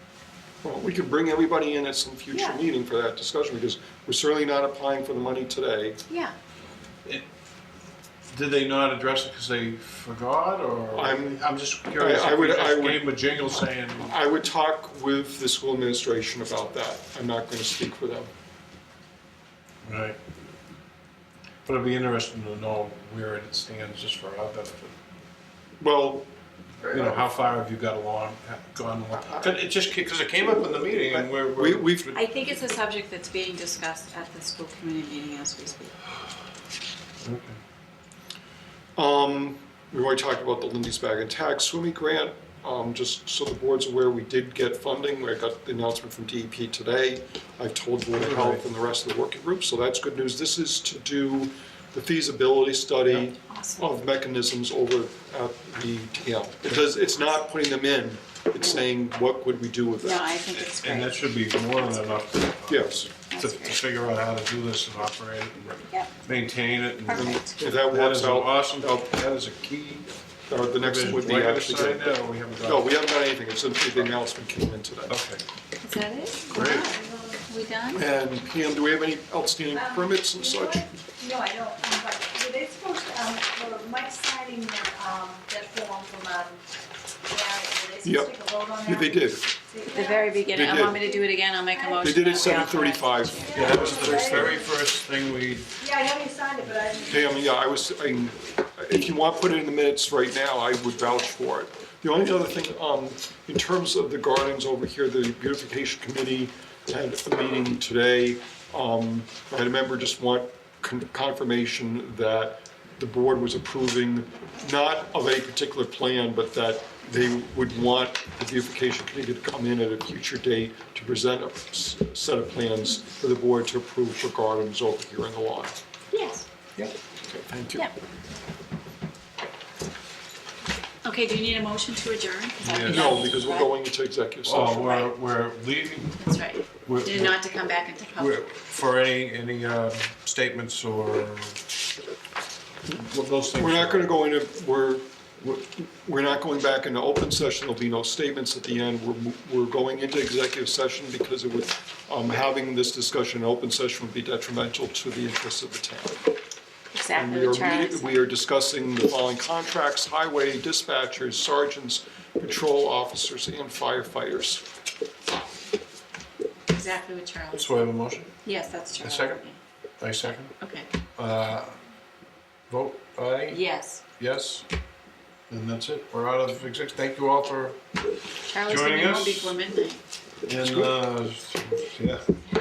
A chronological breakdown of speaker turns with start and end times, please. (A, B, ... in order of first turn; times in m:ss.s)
0:00.6-0:06.0 A
0:06.1-0:06.3 B
0:08.3-0:14.2 C
0:10.9-0:11.4 A
0:11.9-0:13.0 A
0:14.1-0:18.3 A
0:19.8-0:20.2 C
0:21.6-0:25.0 C
0:25.8-0:26.3 A
0:26.8-0:27.2 A
0:26.8-0:32.2 C
0:29.2-0:29.6 A
0:31.1-0:32.1 A
0:32.1-0:36.0 B
0:37.2-0:37.6 C
0:39.0-1:00.3 A
0:48.1-0:48.7 C
0:53.1-0:53.8 B
1:00.0-1:01.2 B
1:00.5-1:10.1 C
1:02.7-1:03.1 A
1:03.3-1:03.8 B
1:07.1-1:07.6 B
1:07.1-1:09.0 A
1:10.5-1:15.1 A
1:10.8-1:12.9 C
1:15.1-1:15.4 C
1:15.8-1:16.9 B
1:16.5-1:17.8 D
1:16.5-1:16.9 C
1:17.5-1:18.0 B
1:17.9-1:20.9 A
1:19.7-1:26.6 D
1:27.2-1:32.6 D
1:28.0-1:28.3 A
1:28.8-1:29.5 A
1:29.9-1:33.7 B
1:30.5-1:31.0 A
1:32.0-1:34.4 A
1:33.3-1:34.7 D
1:33.5-1:35.7 C
1:35.8-1:37.4 D
1:37.1-2:05.8 A
2:06.1-2:06.4 B
2:06.8-2:07.8 A
2:11.0-2:13.7 B
2:12.7-2:15.0 A
2:12.7-2:13.0 C
2:14.4-2:16.2 C
2:16.2-2:18.4 B
2:16.8-2:17.4 C
2:18.2-2:21.6 C
2:22.8-2:24.2 C
2:23.6-2:36.3 A
2:36.9-2:38.2 B
2:37.1-2:44.6 A
2:46.7-2:47.8 B
2:47.5-2:48.3 C
2:48.4-2:49.6 B
2:49.0-2:49.4 C
2:50.0-2:50.5 C
2:50.6-2:50.9 B
2:51.2-2:51.8 C
2:52.7-2:53.6 C
2:53.5-2:54.0 B
2:54.2-2:54.6 C
2:55.5-2:57.8 C
2:58.5-3:00.0 B
2:58.6-2:59.6 C
3:00.4-3:02.2 C
3:00.6-3:00.9 A